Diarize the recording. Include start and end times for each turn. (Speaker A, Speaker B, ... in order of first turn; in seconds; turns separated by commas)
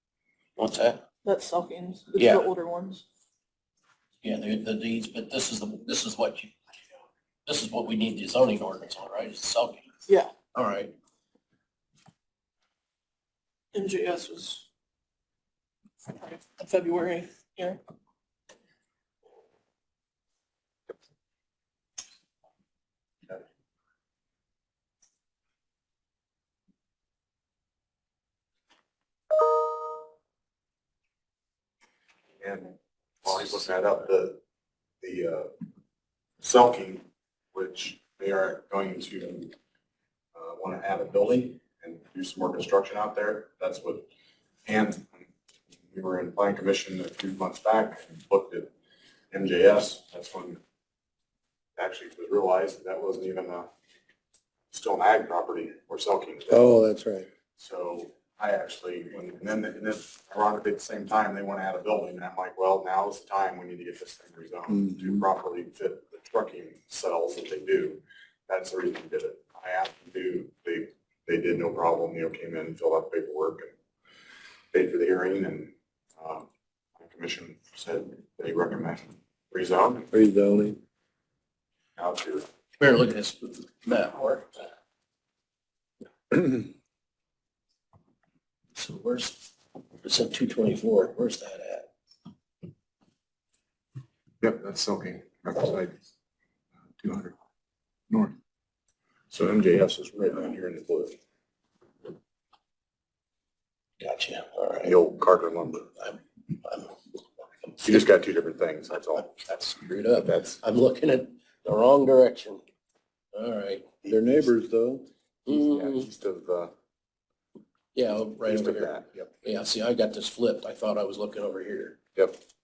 Speaker A: 0.6-1.0, Speaker B: 1.2-3.0, Speaker A: 2.1-2.5, Speaker A: 4.2-6.5, Speaker A: 7.5-9.9, Speaker B: 10.1-10.3, Speaker A: 10.5-10.9, Speaker B: 13.7-14.7, Speaker B: 16.1-17.8, Speaker C: 32.4-34.4, Speaker C: 35.0-35.5, Speaker C: 36.4-39.5, Speaker C: 40.3-44.1, Speaker C: 44.6-45.3, Speaker C: 45.9-48.7, Speaker C: 49.3-50.6, Speaker C: 51.8-53.7, Speaker C: 54.7-56.7, Speaker D: 56.5-57.3, Speaker C: 57.6-73.7, Speaker D: 64.7-65.2, Speaker C: 74.7-80.1, Speaker D: 80.1-80.8, Speaker C: 82.0-82.5, Speaker A: 82.8-84.5, Speaker A: 88.7-89.5, Speaker A: 90.0-91.9, Speaker C: 94.4-95.9, Speaker C: 97.0-97.3, Speaker C: 98.1-98.3, Speaker C: 99.3-101.2, Speaker A: 104.0-105.0, Speaker C: 104.8-106.0, Speaker A: 106.0-106.9, Speaker C: 107.8-110.6, Speaker A: 109.7-112.6, Speaker A: 113.3-113.9, Speaker D: 114.0-115.1, Speaker A: 115.5-116.1, Speaker C: 115.5-116.7, Speaker A: 117.9-122.0, Speaker C: 118.1-119.3